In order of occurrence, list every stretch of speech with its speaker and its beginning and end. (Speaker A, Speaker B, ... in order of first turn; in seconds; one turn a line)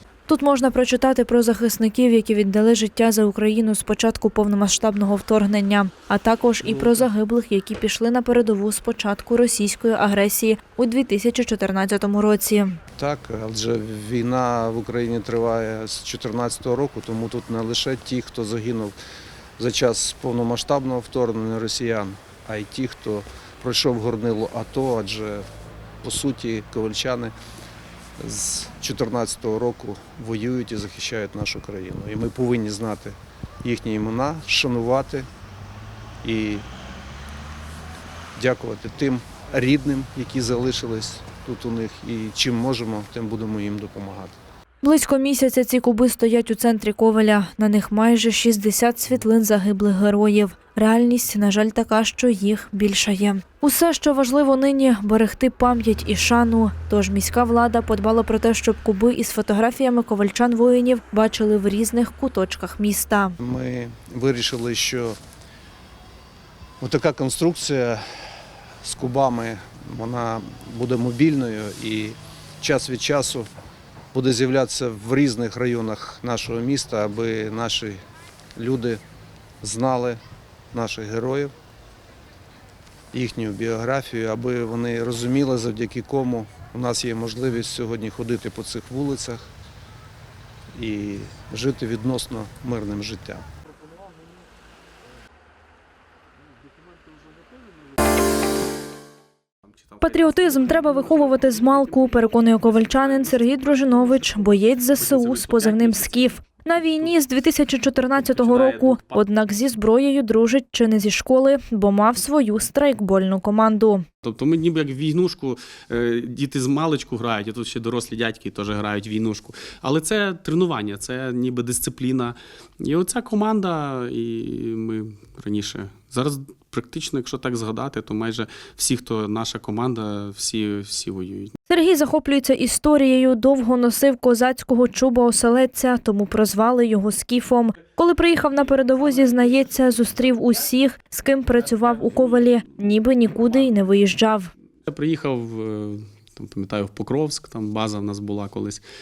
Speaker A: 0.3-12.8
Speaker B: 13.0-19.0
Speaker B: 19.6-25.4
Speaker B: 26.0-27.3
Speaker B: 28.2-35.3
Speaker B: 36.2-36.6
Speaker B: 38.4-44.4
Speaker A: 44.8-63.4
Speaker B: 63.4-65.2
Speaker B: 66.8-68.0
Speaker B: 68.8-73.5
Speaker B: 74.1-78.0
Speaker B: 78.6-79.0
Speaker B: 79.6-80.2
Speaker B: 80.7-81.5
Speaker B: 83.1-89.4
Speaker B: 90.7-93.5
Speaker A: 100.0-114.0
Speaker C: 100.2-107.1
Speaker C: 108.2-109.2
Speaker C: 114.2-131.5
Speaker A: 131.7-144.5
Speaker C: 144.9-148.8